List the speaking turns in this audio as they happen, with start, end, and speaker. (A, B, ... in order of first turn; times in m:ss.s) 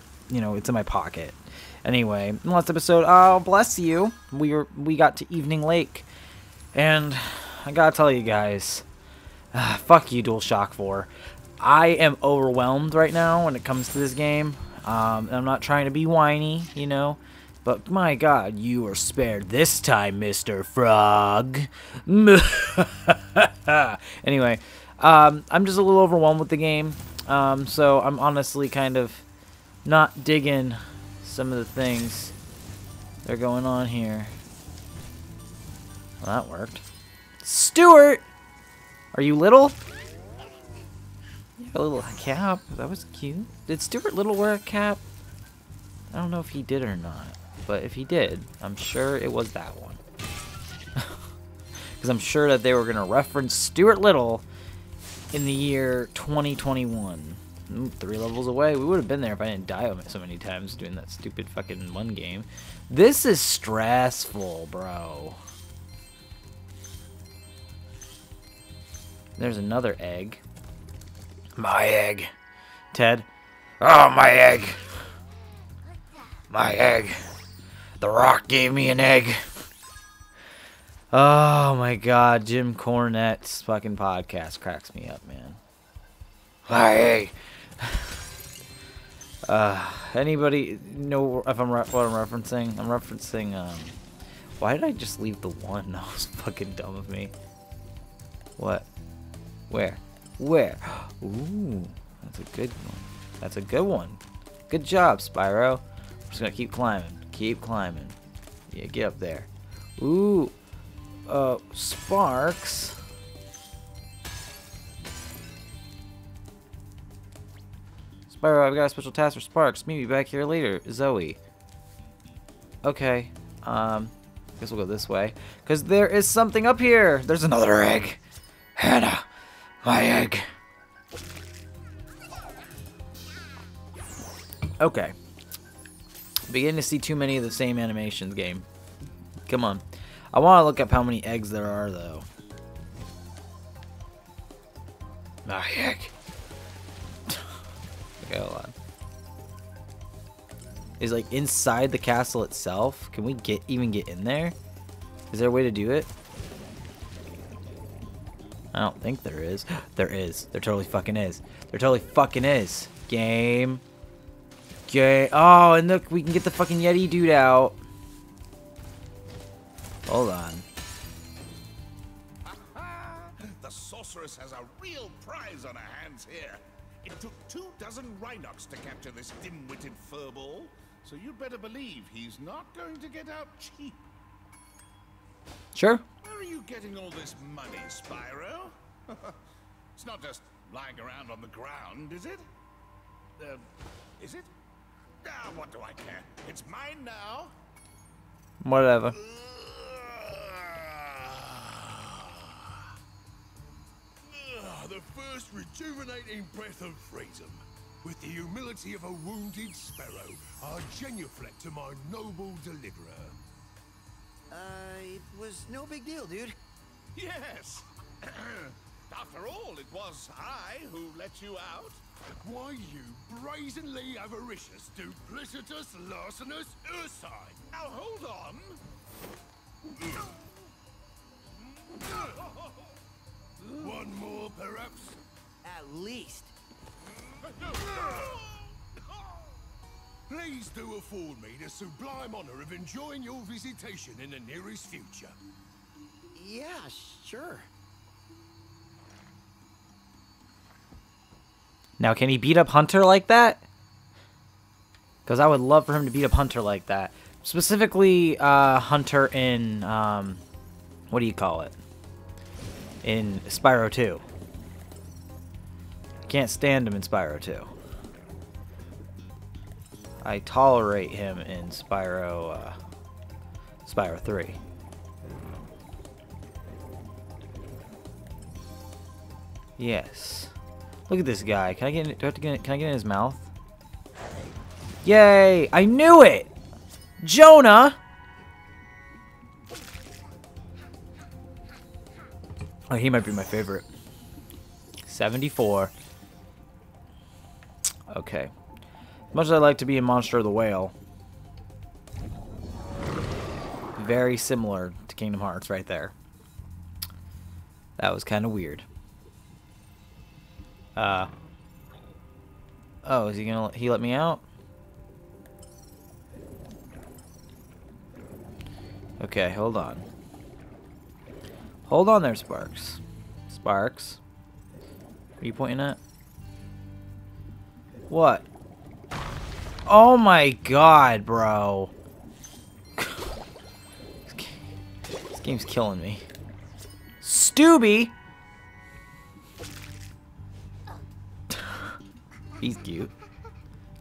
0:00.3-0:06.1 A
0:06.7-0:08.8 A
0:09.5-0:29.2 A
0:29.8-0:32.3 A
0:33.2-0:34.3 A
0:36.2-0:36.8 A
0:37.4-0:38.2 A
0:39.1-0:39.8 A
0:41.6-0:45.0 A
0:46.1-0:50.0 A
0:51.0-0:51.2 A
0:52.0-0:54.4 A
0:55.3-1:05.4 A
1:09.4-1:10.4 A
1:11.6-1:12.3 A
1:12.9-1:13.3 A
1:13.8-1:15.0 A
1:16.5-1:17.2 A
1:18.0-1:19.5 A
1:21.1-1:25.6 A
1:26.7-1:28.2 A
1:29.5-1:34.0 A
1:34.6-1:37.3 A
1:38.6-1:38.9 A
1:39.7-1:48.1 A
1:48.7-1:50.5 A
1:51.3-1:53.0 A
1:58.3-2:01.4 A
2:02.8-2:08.2 A
2:08.8-2:09.3 A
2:09.8-2:10.5 A
2:14.8-2:15.1 A
2:16.5-2:18.6 A
2:19.5-2:22.2 A
2:25.4-2:26.1 A
2:28.2-2:28.7 A
2:31.0-2:34.6 A
2:35.3-2:36.1 A
2:38.7-2:43.8 A
2:44.9-2:47.8 A
2:50.1-2:50.6 A
2:52.4-3:04.0 B
3:05.7-3:06.0 A
3:06.2-3:09.4 B
3:09.9-3:12.4 B
3:13.4-3:13.7 B
3:14.2-3:14.5 B
3:15.2-3:17.5 B
3:18.6-3:19.1 A
3:19.2-3:22.8 B
3:24.2-3:33.4 C
3:34.5-3:36.6 D
3:37.1-3:42.0 B
3:42.4-3:47.6 C
3:47.7-3:48.8 B
3:53.6-3:54.1 B
3:53.8-3:55.2 C
3:55.6-3:56.5 D
3:57.5-3:58.6 B
4:00.3-4:05.4 C
4:06.3-4:07.7 D
4:12.0-4:13.6 A
4:15.2-4:20.4 A
4:21.1-4:21.8 A
4:23.0-4:24.2 A
4:26.3-4:27.7 A
4:30.2-4:32.8 A
4:33.8-4:34.6 A
4:39.8-4:40.5 A
4:41.1-4:43.5 A
4:45.0-4:46.5 A
4:47.2-4:48.0 A
4:52.9-4:53.9 A
4:55.0-4:55.9 A
4:58.1-4:58.5 A
4:59.3-5:00.9 A
5:04.0-5:06.1 A
5:08.0-5:08.8 A
5:11.0-5:11.3 A
5:13.0-5:14.4 A
5:19.2-5:20.1 A
5:21.8-5:24.2 A
5:25.4-5:26.0 A
5:28.1-5:28.4 A
5:29.8-5:31.9 A
5:33.0-5:33.3 A
5:34.3-5:34.6 A
5:35.3-5:36.2 A
5:37.2-5:38.1 A
5:42.6-5:43.1 A